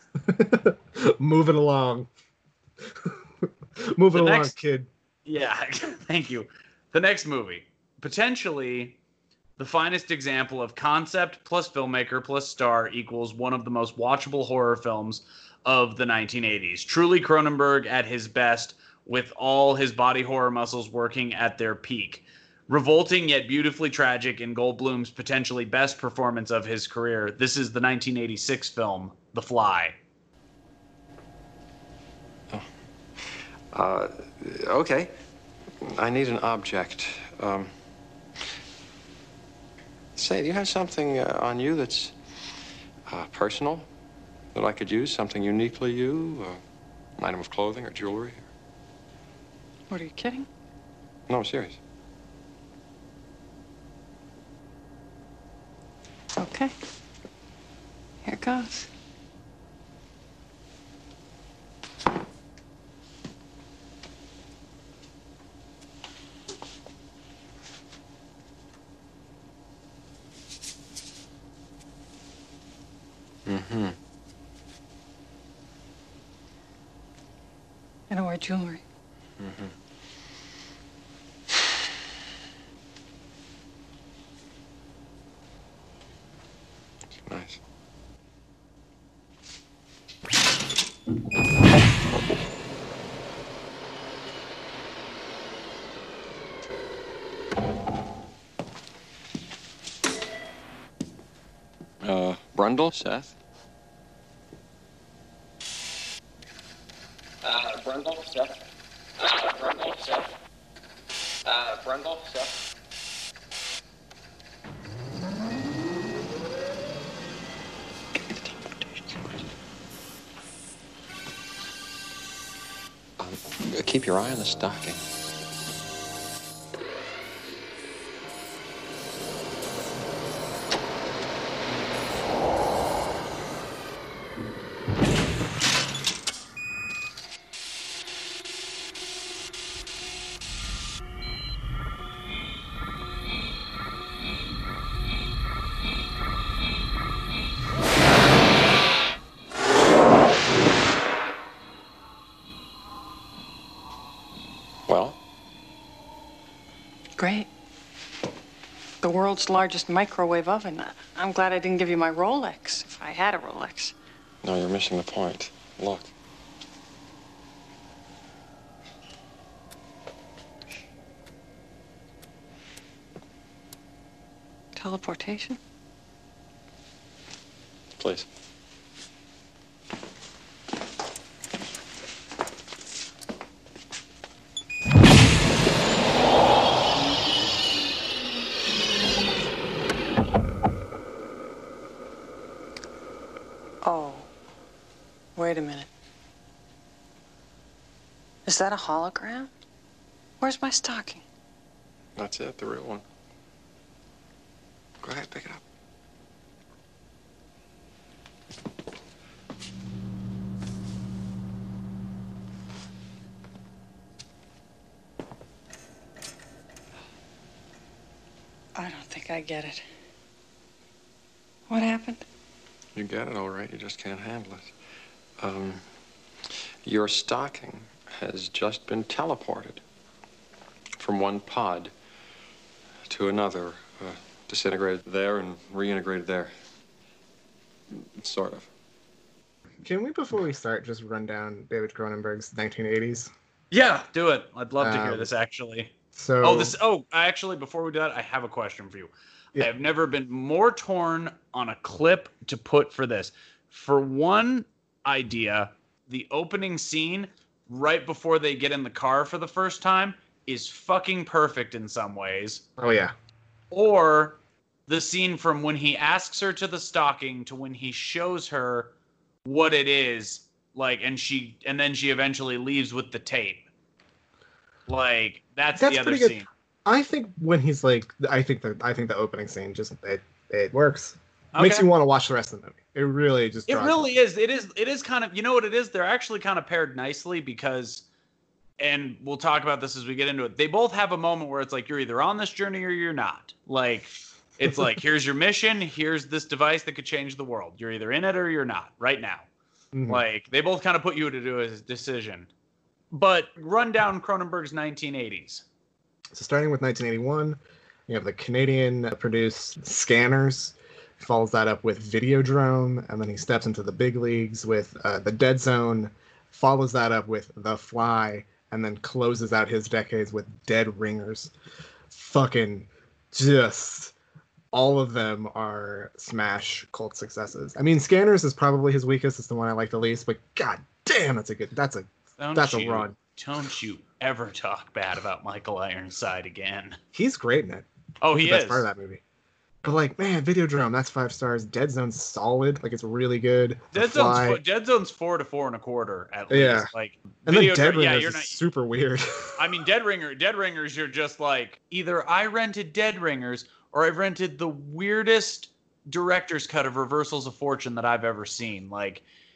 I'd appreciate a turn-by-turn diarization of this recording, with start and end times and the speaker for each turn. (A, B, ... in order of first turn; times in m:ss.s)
0:00.2-0:02.1 A
0:02.9-0:03.2 A
0:03.8-0:04.9 A
0:04.1-0:04.5 B
0:05.3-0:09.0 B
0:09.6-0:30.0 B
0:33.7-0:35.2 C
0:35.8-0:37.7 C
0:40.2-0:42.2 C
0:43.1-0:43.9 C
0:44.5-0:46.6 C
0:47.2-0:48.5 C
0:49.9-0:50.5 D
0:51.3-0:51.8 C
0:56.4-0:56.7 D
0:58.2-0:58.9 D
1:13.5-1:14.0 C
1:18.1-1:18.8 D
1:19.4-1:19.7 C
1:27.2-1:27.6 C
1:42.0-1:43.4 C
1:47.4-1:48.6 E
1:49.2-1:50.3 E
1:51.5-1:52.6 E
2:03.2-2:05.0 C
2:34.9-2:35.2 C
2:37.2-2:37.5 D
2:39.0-2:43.9 D
2:44.4-2:46.1 C
2:54.8-2:55.6 D
2:58.0-2:58.3 C
3:13.8-3:14.3 D
3:15.4-3:15.9 D
3:18.5-3:19.5 D
3:20.4-3:21.2 D
3:22.2-3:23.0 C
3:25.0-3:25.6 C
3:38.8-3:39.8 D
3:41.7-3:42.2 D
3:43.0-3:44.8 C
3:45.4-3:45.9 C
3:46.8-3:49.8 C
3:51.0-3:51.9 C
3:53.1-3:56.5 C
3:58.2-3:58.7 C
3:59.8-4:03.3 A
4:03.7-4:22.6 B
4:04.8-4:05.3 A
4:06.1-4:06.7 A
4:22.8-4:23.1 A
4:23.7-4:28.9 B
4:29.4-4:33.6 B
4:34.9-4:36.5 B
4:35.8-4:44.1 A
4:41.6-4:41.9 B
4:43.7-4:48.0 B
4:48.8-4:59.5 B
4:59.9-5:00.2 A
5:00.1-5:02.5 B
5:03.1-5:05.6 B
5:06.3-5:21.5 A
5:22.1-5:24.1 A
5:24.7-5:33.2 A
5:32.4-5:37.0 B
5:37.1-5:37.9 A
5:38.2-5:38.9 B
5:38.4-5:39.2 A
5:39.8-5:44.6 A
5:43.9-5:48.6 B
5:46.5-5:46.9 A
5:47.4-5:49.5 A
5:49.6-5:59.2 B